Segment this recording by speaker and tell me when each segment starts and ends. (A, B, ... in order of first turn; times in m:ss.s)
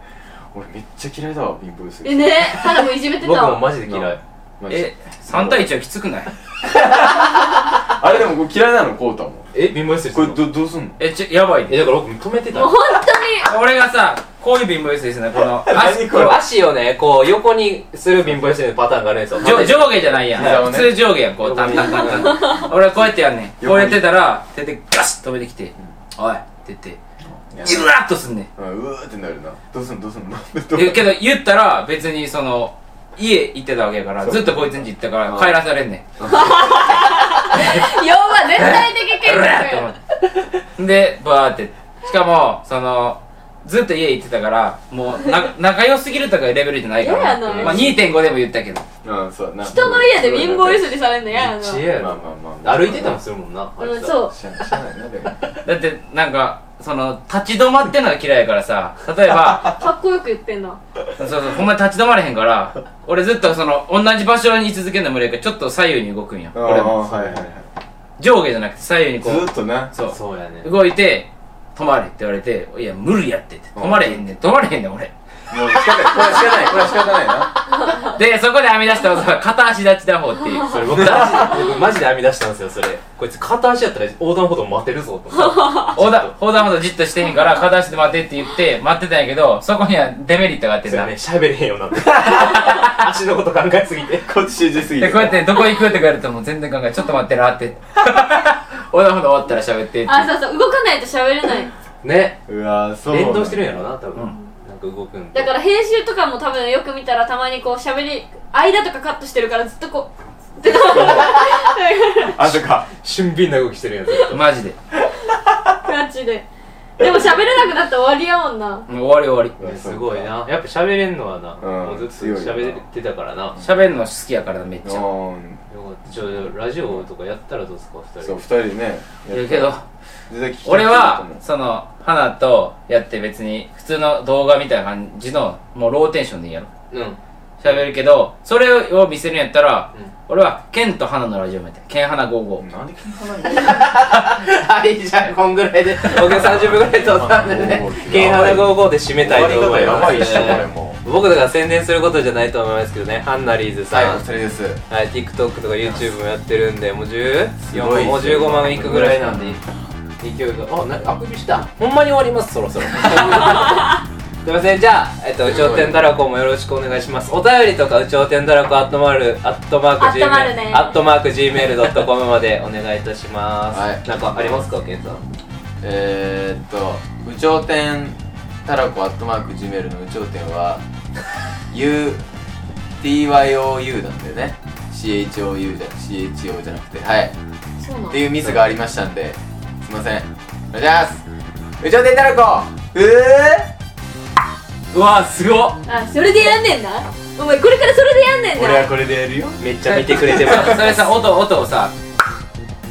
0:00.5-0:02.8 A
0:02.0-0:03.7 B
0:03.2-0:04.2 C
0:03.8-0:05.7 A
0:04.7-0:06.3 D
0:06.6-0:09.5 A
0:09.5-0:10.4 C
0:10.1-0:11.0 A
0:11.0-0:11.8 D
0:11.7-0:12.8 C
0:12.5-0:13.5 B
0:13.4-0:16.4 D
0:15.4-0:16.4 A
0:16.1-0:20.8 C
0:19.4-0:27.0 D
0:19.4-0:21.0 A
0:21.4-0:22.4 C
0:21.7-0:22.6 B
0:22.5-0:24.0 A
0:27.3-0:27.9 A
0:27.6-0:28.5 D
0:28.6-0:31.2 A
0:30.7-0:36.0 D
0:34.2-0:35.6 A
0:36.2-0:36.5 A
0:36.2-0:39.9 B
0:38.6-0:40.0 D
0:40.8-0:48.8 D
0:47.0-0:48.0 B
0:47.4-0:48.0 A
0:49.0-0:51.0 A
0:49.6-0:52.0 B
0:51.3-0:54.2 C
0:51.8-0:53.2 A
0:53.8-0:54.3 B
0:54.3-0:55.4 A
0:55.6-0:59.8 D
0:59.6-1:00.8 B
1:01.2-1:07.4 D
1:06.5-1:07.7 A
1:08.2-1:15.1 D
1:09.2-1:09.9 A
1:10.0-1:10.7 C
1:13.8-1:14.2 A
1:15.5-1:17.5 A
1:15.9-1:16.7 D
1:18.0-1:21.4 D
1:20.7-1:26.3 C
1:25.3-1:25.9 B
1:25.9-1:31.1 D
1:30.8-1:34.3 C
1:32.2-1:32.8 D
1:34.2-1:35.5 A
1:35.0-1:40.3 D
1:40.0-1:41.7 B
1:42.0-1:42.4 C
1:42.5-1:43.9 A
1:43.1-1:45.5 C
1:45.3-1:52.4 B
1:50.6-1:51.5 A
1:52.2-1:52.9 A
1:52.9-1:54.4 C
1:54.2-1:54.8 D
1:55.0-1:55.6 A
1:55.8-1:56.4 B
1:57.0-1:58.8 B
1:57.0-1:57.7 A
1:58.9-1:59.6 D
1:59.6-2:00.4 A
1:59.6-2:03.6 C
2:01.6-2:02.8 A
2:03.5-2:03.8 A
2:03.6-2:05.1 D
2:04.8-2:05.6 A
2:05.7-2:08.4 C
2:06.1-2:07.0 A
2:08.2-2:09.7 A
2:09.3-2:09.8 D
2:10.3-2:11.4 A
2:10.6-2:16.7 D
2:16.9-2:17.2 C
2:17.6-2:22.6 D
2:22.6-2:23.9 A
2:23.6-2:34.2 C
2:26.1-2:31.0 A
2:33.9-2:34.8 A
2:34.9-2:39.6 C
2:37.6-2:39.6 A
2:40.2-2:43.9 C
2:44.4-2:55.2 C
2:45.5-2:46.0 A
2:50.0-2:51.0 B
2:53.7-2:54.6 A
2:55.8-3:00.8 A
3:01.7-3:02.2 A
3:03.0-3:07.3 A
3:07.8-3:08.2 B
3:08.1-3:11.2 A
3:11.8-3:13.7 A
3:14.9-3:15.8 D
3:15.9-3:18.9 B
3:18.5-3:20.9 A
3:19.6-3:21.1 C
3:20.1-3:21.9 D